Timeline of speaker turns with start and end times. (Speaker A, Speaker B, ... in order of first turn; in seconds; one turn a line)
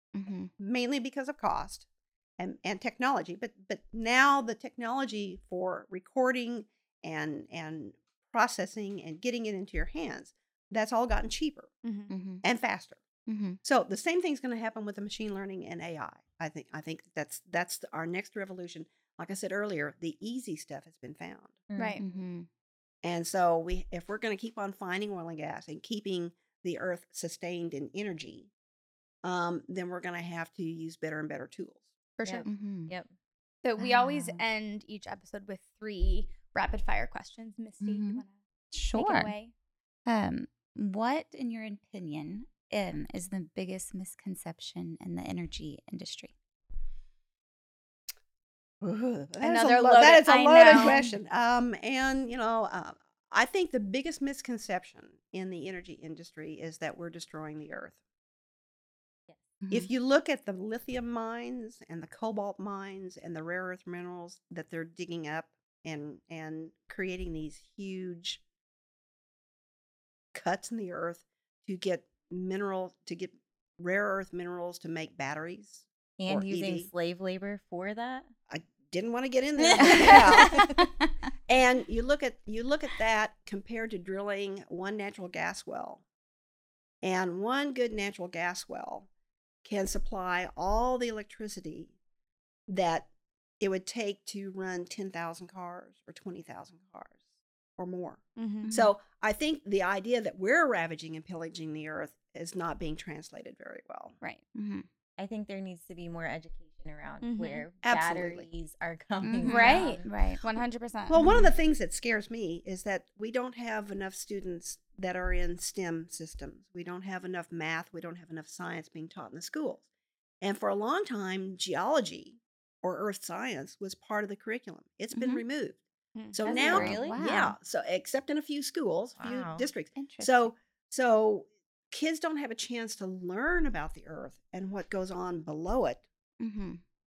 Speaker A: 0.1-0.5
Speaker B: 0.6-1.9
Speaker B: 2.4-11.7
Speaker C: 11.8-12.1
Speaker A: 12.1-12.4
Speaker B: 12.4-13.0
Speaker A: 13.3-13.6
Speaker B: 13.6-21.6
Speaker D: 21.7-22.0
Speaker C: 21.8-22.0
Speaker A: 22.0-22.5
Speaker B: 23.0-28.5
Speaker B: 29.2-31.9
Speaker C: 32.2-32.5
Speaker D: 32.2-33.1
Speaker A: 32.5-33.0
Speaker C: 33.6-38.4
Speaker A: 33.8-34.4
Speaker A: 37.8-39.3
Speaker C: 38.9-39.5
Speaker A: 40.1-46.3
Speaker B: 48.8-58.0
Speaker C: 49.4-51.0
Speaker A: 50.7-51.1
Speaker A: 59.6-59.9
Speaker B: 59.7-68.4
Speaker B: 70.3-76.9
Speaker D: 76.2-78.3
Speaker B: 78.5-80.7
Speaker D: 79.6-80.7
Speaker A: 79.9-80.5
Speaker B: 81.5-86.0
Speaker B: 87.0-89.1
Speaker B: 89.6-91.9
Speaker B: 92.7-97.2
Speaker B: 97.8-104.2
Speaker C: 98.4-98.7
Speaker A: 98.6-98.9
Speaker A: 104.5-104.9
Speaker D: 105.2-110.0
Speaker C: 107.2-107.7
Speaker B: 107.8-108.5
Speaker A: 109.2-110.4
Speaker C: 109.5-111.2
Speaker B: 111.1-119.8
Speaker A: 111.2-111.5
Speaker B: 120.4-125.8
Speaker A: 125.1-125.4
Speaker C: 126.2-126.4
Speaker B: 126.3-136.0
Speaker A: 126.5-127.6
Speaker D: 126.5-127.2
Speaker D: 129.2-129.7
Speaker A: 129.9-130.5
Speaker A: 136.4-136.8